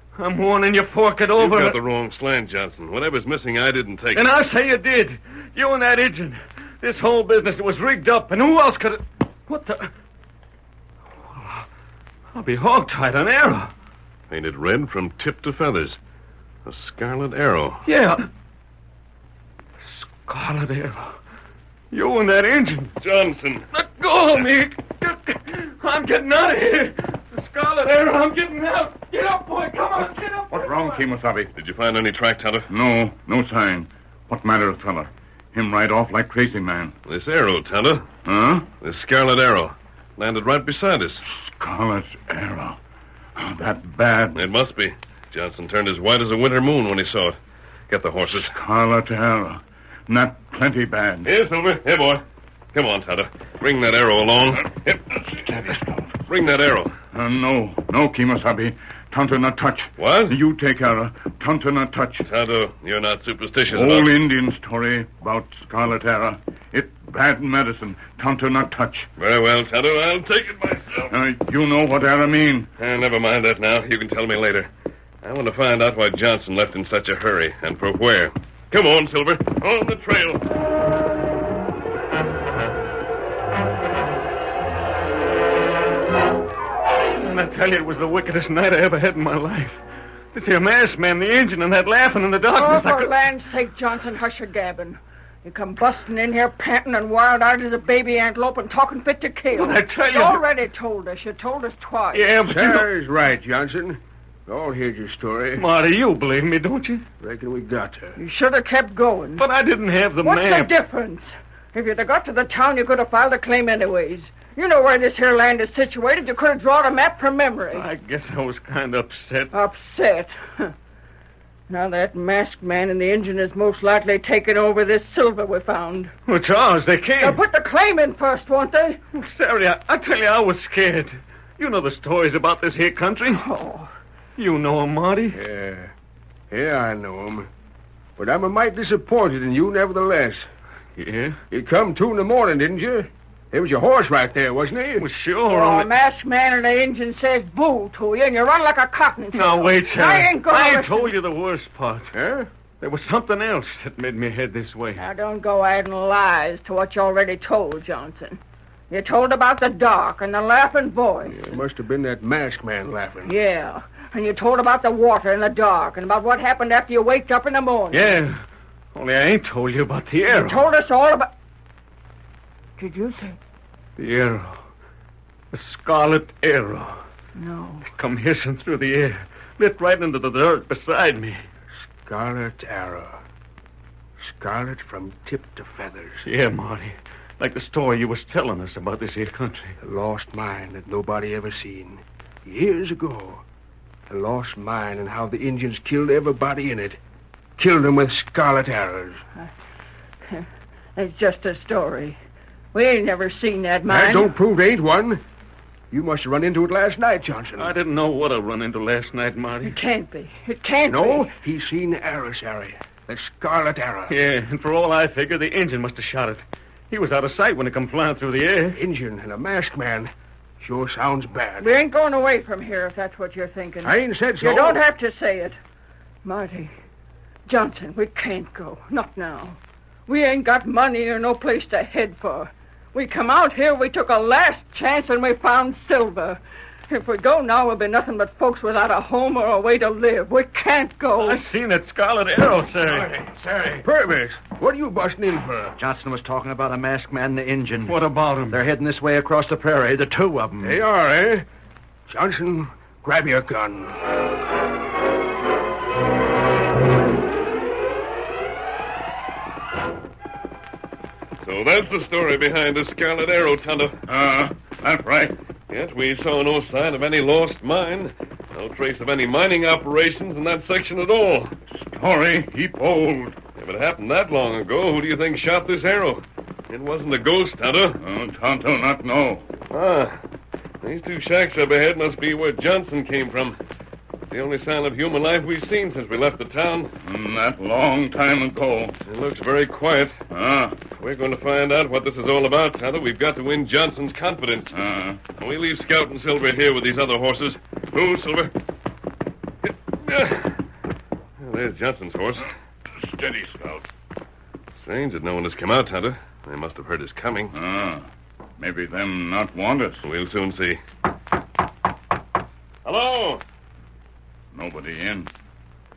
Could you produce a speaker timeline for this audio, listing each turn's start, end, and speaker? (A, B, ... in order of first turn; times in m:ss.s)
0:00.1-0:01.8 A
0:01.4-0:04.3 B
0:04.1-0:09.9 A
0:11.3-0:11.6 A
0:12.3-0:13.7 A
0:14.3-0:16.0 B
0:16.6-0:17.9 B
0:17.8-0:18.3 A
0:19.8-0:21.2 A
0:21.9-0:22.9 A
0:23.0-0:23.6 B
0:23.7-0:31.0 A
0:30.5-0:31.5 C
0:31.5-0:32.7 B
0:32.7-0:36.9 C
0:37.0-0:38.1 B
0:38.2-0:38.7 C
0:38.8-0:41.2 B
0:41.3-0:42.8 C
0:43.4-0:44.5 C
0:44.3-0:47.4 B
0:47.9-0:48.5 B
0:48.5-0:51.3 C
0:51.2-0:54.9 B
0:54.8-0:56.1 C
0:56.2-0:56.9 B
0:57.1-1:02.3 C
1:00.0-1:00.4 B
1:02.2-1:04.1 B
1:03.7-1:09.1 C
1:09.2-1:11.1 B
1:11.1-1:12.7 C
1:12.8-1:14.7 B
1:15.2-1:20.4 B
1:27.2-1:29.8 A
1:30.3-1:33.1 A
1:32.5-1:42.3 D
1:39.5-1:40.4 A
1:42.1-1:42.9 A
1:42.4-1:45.6 E
1:45.6-1:47.0 A
1:47.2-1:48.2 E
1:48.2-1:49.4 D
1:49.4-1:50.7 A
1:50.2-1:57.9 D
1:57.7-1:59.5 A
1:59.5-2:00.7 D
2:01.7-2:06.1 D
2:06.3-2:07.4 A
2:07.2-2:09.0 D
2:09.1-2:13.4 A
2:13.3-2:13.9 D
2:14.4-2:15.4 A
2:15.3-2:15.9 E
2:16.5-2:17.5 E
2:18.2-2:20.5 E
2:21.0-2:21.4 A
2:21.5-2:25.0 E
2:25.0-2:25.9 A
2:25.5-2:31.2 D
2:29.3-2:32.1 A
2:32.1-2:32.5 E
2:32.8-2:35.0 A
2:35.0-2:41.6 D
2:41.5-2:43.3 E
2:43.2-2:48.1 D
2:47.9-2:48.4 A
2:48.9-2:50.6 A
2:50.3-2:51.3 D
2:52.8-2:53.4 D
2:54.0-2:54.6 A
2:55.5-2:57.0 A
2:57.4-2:57.9 D
2:57.9-3:01.4 A
3:02.0-3:03.2 E
3:04.2-3:06.2 E
3:06.2-3:09.7 A
3:09.8-3:13.4 E
3:14.1-3:17.0 E
3:17.6-3:19.2 E
3:20.3-3:22.2 D
3:22.7-3:24.3 D
3:23.9-3:25.2 E
3:25.9-3:27.7 E
3:27.6-3:29.8 A
3:29.6-3:31.3 D
3:30.9-3:34.1 E
3:34.1-3:38.8 A
3:38.8-3:41.7 E
3:41.6-3:45.6 D
3:43.8-3:44.8 E
3:46.2-3:46.7 D
3:47.5-4:01.4 D
4:01.2-4:03.2 A
4:03.7-4:05.8 E
4:05.8-4:10.8 F
4:07.9-4:08.6 A
4:10.6-4:11.4 E
4:12.1-4:14.0 E
4:21.4-4:24.0 B
4:24.1-4:25.4 C
4:25.7-4:31.5 B
4:31.7-4:33.4 C
4:33.6-4:38.0 B
4:38.0-4:39.4 C
4:39.7-4:40.2 B
4:40.8-4:43.6 B
4:44.3-4:46.9 B
4:47.0-4:49.0 C
4:49.0-4:50.2 B
4:50.3-4:50.8 C
4:51.0-4:54.8 B
4:54.7-4:55.2 C
4:55.4-4:58.5 B
4:59.7-5:00.6 B
5:01.4-5:02.5 B
5:03.0-5:03.8 C
5:04.8-5:07.5 B
5:07.5-5:08.1 C
5:08.6-5:10.0 C
5:10.0-5:10.8 B
5:12.8-5:13.4 B
5:14.5-5:15.3 C